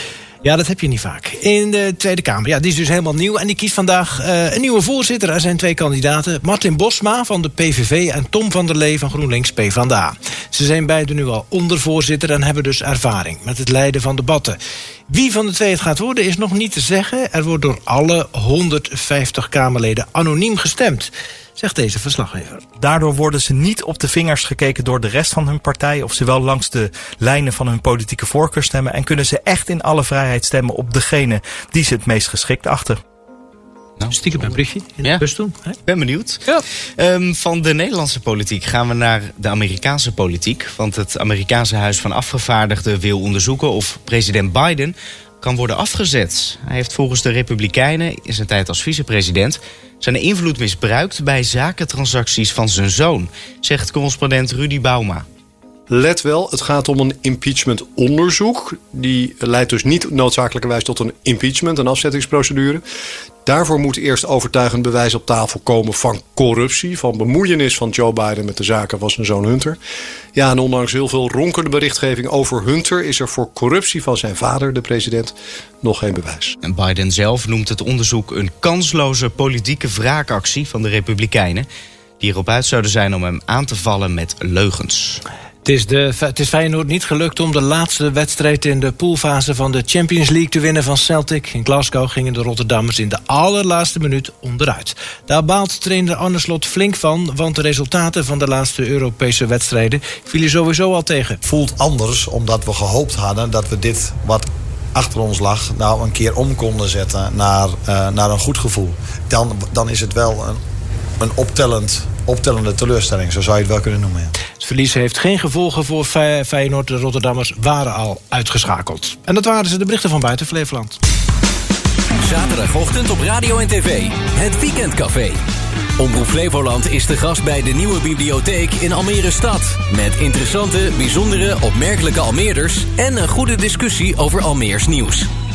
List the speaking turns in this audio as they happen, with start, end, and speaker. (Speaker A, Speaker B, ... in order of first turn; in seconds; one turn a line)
Speaker A: 0.4-14.6
Speaker A: 15.1-22.7
Speaker B: 22.8-33.0
Speaker A: 34.1-35.7
Speaker C: 35.8-55.2
Speaker D: 55.9-62.8
Speaker D: 63.5-69.8
Speaker D: 70.3-76.5
Speaker C: 76.6-81.7
Speaker C: 82.2-85.2
Speaker A: 85.6-101.4
Speaker E: 101.4-110.6
Speaker E: 111.2-114.3
Speaker A: 114.5-121.0
Speaker F: 122.3-125.3
Speaker F: 126.0-135.2